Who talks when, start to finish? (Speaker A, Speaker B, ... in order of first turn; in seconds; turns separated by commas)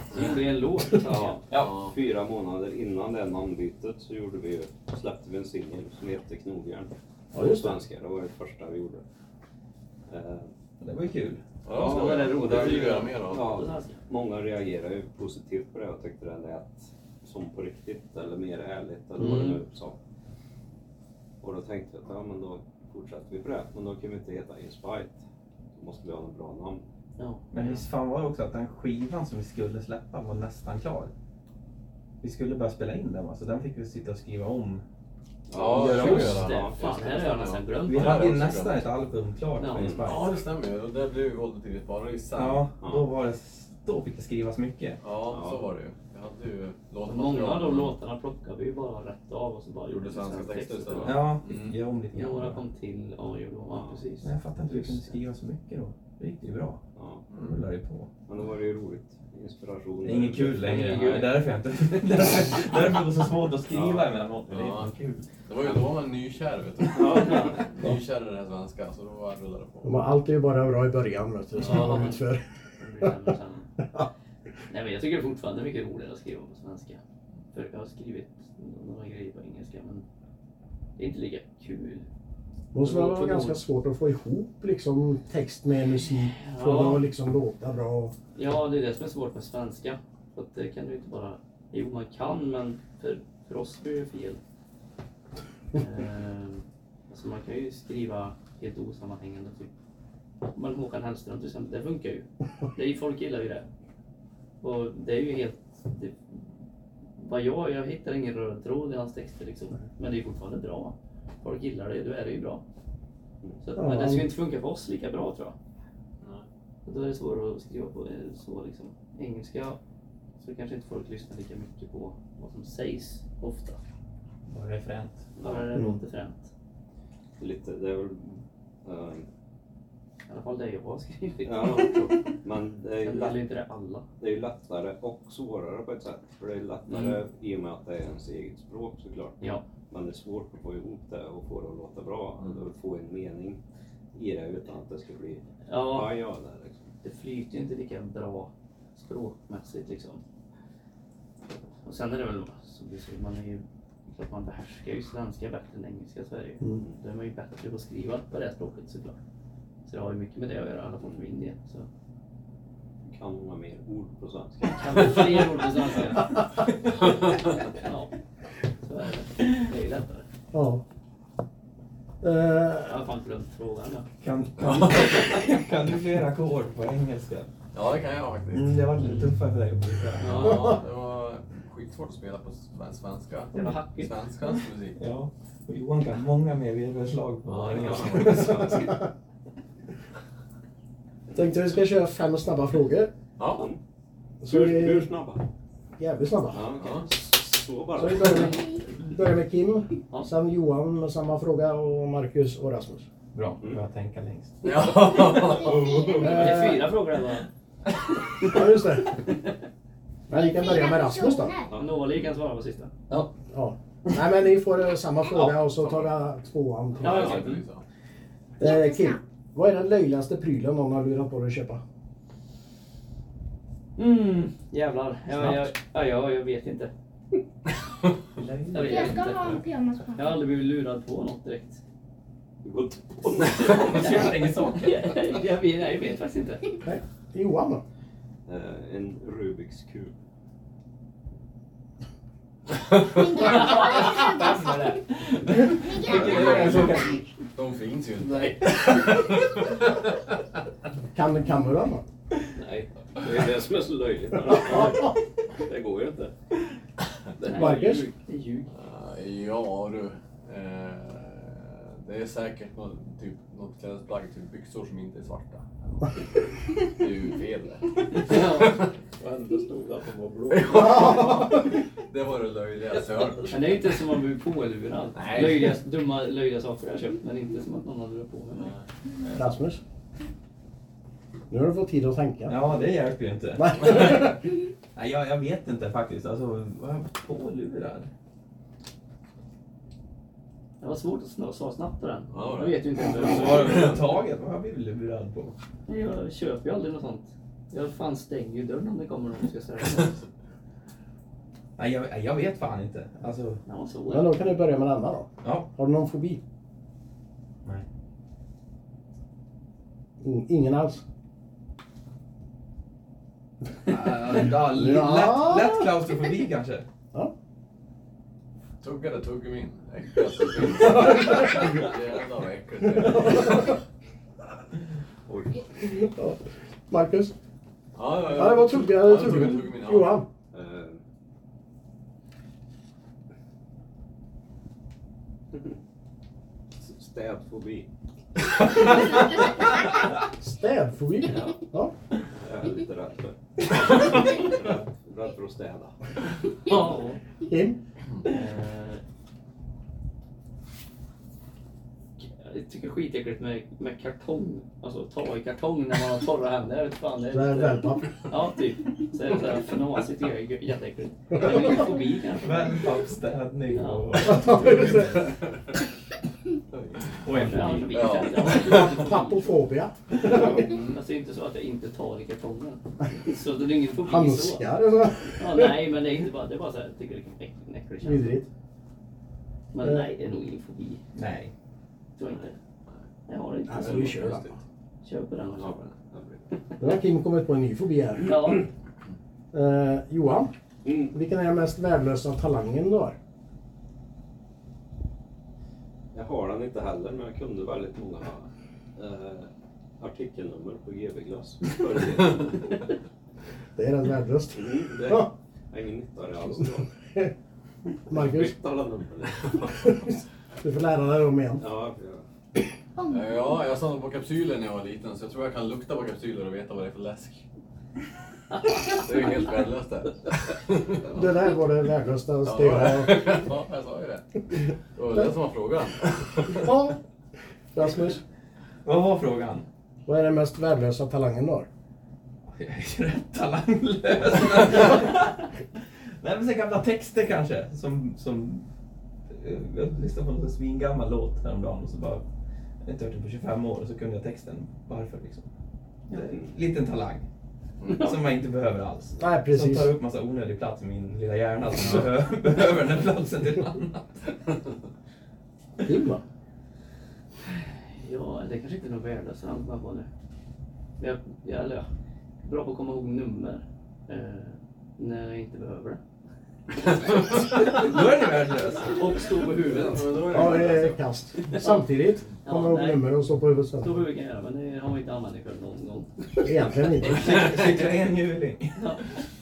Speaker A: 0.1-1.4, Speaker B: 0.9-9.0, Speaker C: 1.6-1.9, Speaker D: 7.3-7.8, Speaker B: 10.1-10.5, Speaker E: 10.8-11.4, Speaker C: 11.6-13.6, Speaker B: 11.7-20.0, Speaker A: 11.8-14.0, Speaker A: 19.2-19.6, Speaker B: 21.4-25.2, Speaker B: 25.8-26.8, Speaker A: 27.2-27.8, Speaker E: 27.5-31.1, Speaker E: 32.2-34.8, Speaker B: 35.5-36.8, Speaker C: 35.5-38.9, Speaker E: 35.7-36.6, Speaker A: 35.9-38.4, Speaker E: 37.8-40.3, Speaker A: 39.6-40.1, Speaker B: 39.8-40.1, Speaker C: 40.0-42.7, Speaker E: 42.3-45.0, Speaker C: 45.0-48.0, Speaker B: 45.3-45.7, Speaker A: 47.1-51.4, Speaker C: 49.9-51.8, Speaker E: 51.0-52.6, Speaker A: 52.1-55.2, Speaker E: 54.2-56.8, Speaker B: 57.0-57.2, Speaker C: 57.3-57.6, Speaker E: 57.3-58.1, Speaker B: 58.3-61.0, Speaker E: 60.0-65.3, Speaker A: 60.6-61.3, Speaker C: 64.5-64.9, Speaker C: 65.4-70.0, Speaker B: 66.9-67.7, Speaker A: 67.2-67.5, Speaker D: 69.8-72.4, Speaker C: 71.6-72.1, Speaker A: 71.6-72.1, Speaker A: 72.8-73.7, Speaker A: 74.7-77.0, Speaker A: 77.5-80.0, Speaker A: 81.0-82.1, Speaker D: 82.7-88.1, Speaker A: 82.8-83.6, Speaker A: 86.1-87.1, Speaker A: 88.3-94.4, Speaker A: 95.8-99.7, Speaker A: 100.5-103.7, Speaker A: 104.6-106.5, Speaker A: 107.2-112.6, Speaker A: 113.6-115.5, Speaker D: 113.8-114.3, Speaker C: 116.2-116.5, Speaker A: 116.8-119.8, Speaker A: 120.4-123.8, Speaker E: 124.5-125.2, Speaker B: 125.4-125.7, Speaker A: 125.4-126.5, Speaker B: 127.4-129.3, Speaker A: 130.3-132.2, Speaker B: 131.4-133.4, Speaker A: 133.0-134.1, Speaker B: 134.2-143.6, Speaker B: 144.1-146.9, Speaker A: 145.7-146.2, Speaker A: 147.0-150.2, Speaker A: 151.8-159.2, Speaker A: 159.9-161.9, Speaker B: 163.1-165.6, Speaker A: 164.7-166.4, Speaker A: 167.7-168.1, Speaker A: 168.8-170.2, Speaker D: 170.5-170.8, Speaker D: 172.2-173.0, Speaker A: 172.8-174.1, Speaker E: 174.2-177.5, Speaker C: 174.6-175.3, Speaker C: 177.7-178.8, Speaker E: 178.5-180.7, Speaker A: 180.2-180.7, Speaker C: 180.2-185.0, Speaker A: 183.5-184.1, Speaker E: 185.0-188.9, Speaker C: 187.5-188.9, Speaker B: 188.2-188.6, Speaker D: 188.7-189.0, Speaker D: 191.3-193.1, Speaker C: 193.4-193.7, Speaker B: 193.5-193.8, Speaker D: 194.4-195.1, Speaker B: 194.4-195.5, Speaker D: 196.0-196.7, Speaker B: 196.5-198.7, Speaker C: 196.8-197.1, Speaker D: 198.0-203.1, Speaker E: 203.3-204.9, Speaker C: 204.6-206.5, Speaker F: 205.3-206.6, Speaker A: 206.1-207.5, Speaker D: 206.2-206.9, Speaker D: 208.4-209.2, Speaker D: 210.3-211.6, Speaker F: 210.3-211.8, Speaker A: 211.7-213.3, Speaker D: 213.5-217.5, Speaker C: 215.6-216.1, Speaker C: 217.0-217.8, Speaker A: 217.0-217.7, Speaker F: 218.6-219.2, Speaker D: 218.6-221.8, Speaker A: 224.0-226.9, Speaker E: 225.3-225.7, Speaker E: 228.3-229.6, Speaker A: 228.7-229.6, Speaker F: 228.8-230.4, Speaker A: 230.2-231.8, Speaker B: 232.6-234.0, Speaker E: 233.6-235.3, Speaker A: 233.6-236.7, Speaker D: 236.8-237.8, Speaker B: 238.5-240.1, Speaker F: 243.1-244.7, Speaker A: 243.5-244.2, Speaker E: 245.3-247.2, Speaker F: 245.7-247.2, Speaker C: 246.1-250.2, Speaker D: 251.1-252.0, Speaker A: 252.6-252.9, Speaker B: 253.2-256.3, Speaker D: 254.5-255.0, Speaker A: 257.4-258.7, Speaker D: 257.4-258.1, Speaker C: 258.7-265.7, Speaker C: 266.8-268.9, Speaker A: 268.1-268.8, Speaker B: 269.2-271.2, Speaker C: 270.5-274.0, Speaker D: 270.8-271.6, Speaker A: 273.5-278.8, Speaker C: 275.1-275.8, Speaker D: 279.4-279.8, Speaker D: 281.5-282.6, Speaker E: 282.5-288.1, Speaker D: 283.6-284.4, Speaker A: 290.8-294.0, Speaker C: 292.3-294.2, Speaker E: 293.1-295.6, Speaker A: 295.9-300.2, Speaker E: 301.8-303.6, Speaker A: 303.7-304.5, Speaker D: 304.1-306.4, Speaker E: 305.4-305.7, Speaker D: 310.2-311.0, Speaker E: 313.9-316.9, Speaker D: 314.6-315.8, Speaker C: 318.8-323.8, Speaker D: 320.7-321.9, Speaker D: 323.0-323.6, Speaker B: 325.3-325.7, Speaker D: 325.8-327.3, Speaker C: 327.9-330.2, Speaker D: 328.3-330.3, Speaker B: 330.5-331.0, Speaker B: 336.8-337.9, Speaker D: 340.4-341.9, Speaker B: 342.4-345.9, Speaker A: 346.7-347.2, Speaker D: 347.4-347.8, Speaker A: 348.2-349.0, Speaker A: 352.2-363.0, Speaker D: 357.3-358.2, Speaker D: 361.4-361.8, Speaker E: 362.4-364.9, Speaker A: 363.7-364.6, Speaker D: 364.3-365.2, Speaker C: 366.7-367.2, Speaker E: 367.2-368.1, Speaker A: 367.3-369.5, Speaker C: 367.9-369.1, Speaker D: 368.4-370.8, Speaker A: 370.3-374.7, Speaker C: 370.6-371.0, Speaker D: 374.0-375.9, Speaker A: 375.3-378.4, Speaker D: 378.0-378.5, Speaker A: 379.7-381.0, Speaker D: 379.8-380.1, Speaker E: 381.1-381.5, Speaker A: 382.2-382.6, Speaker A: 383.3-384.3, Speaker D: 383.7-384.6, Speaker C: 383.8-384.6, Speaker A: 385.0-385.9, Speaker B: 385.6-386.6, Speaker D: 386.8-388.6, Speaker A: 388.2-388.7, Speaker D: 389.5-390.5, Speaker B: 390.9-391.1, Speaker D: 391.1-393.2, Speaker B: 396.1-402.7, Speaker D: 403.8-405.3, Speaker B: 404.6-406.9, Speaker D: 406.6-407.3, Speaker D: 408.1-408.6, Speaker B: 408.1-410.1, Speaker D: 409.7-411.6, Speaker B: 411.6-412.2, Speaker F: 413.0-413.6, Speaker C: 413.1-417.4, Speaker C: 418.8-421.2, Speaker D: 421.1-423.5, Speaker C: 422.4-426.7, Speaker D: 426.5-427.0, Speaker D: 427.7-428.2, Speaker E: 428.9-429.7, Speaker D: 430.1-431.7, Speaker E: 432.6-435.6, Speaker E: 436.2-438.6, Speaker E: 439.3-442.2, Speaker E: 442.8-445.5, Speaker E: 446.1-447.3, Speaker C: 447.8-448.1, Speaker E: 447.9-454.2, Speaker D: 449.2-449.9, Speaker D: 455.8-456.2, Speaker A: 457.5-460.1, Speaker A: 461.0-461.9, Speaker A: 462.4-466.0, Speaker E: 467.3-469.0, Speaker A: 468.7-470.2, Speaker C: 469.5-471.0, Speaker D: 470.3-474.0, Speaker A: 472.5-473.1, Speaker A: 473.8-476.5, Speaker D: 476.4-477.4, Speaker E: 477.0-479.1, Speaker A: 478.8-479.1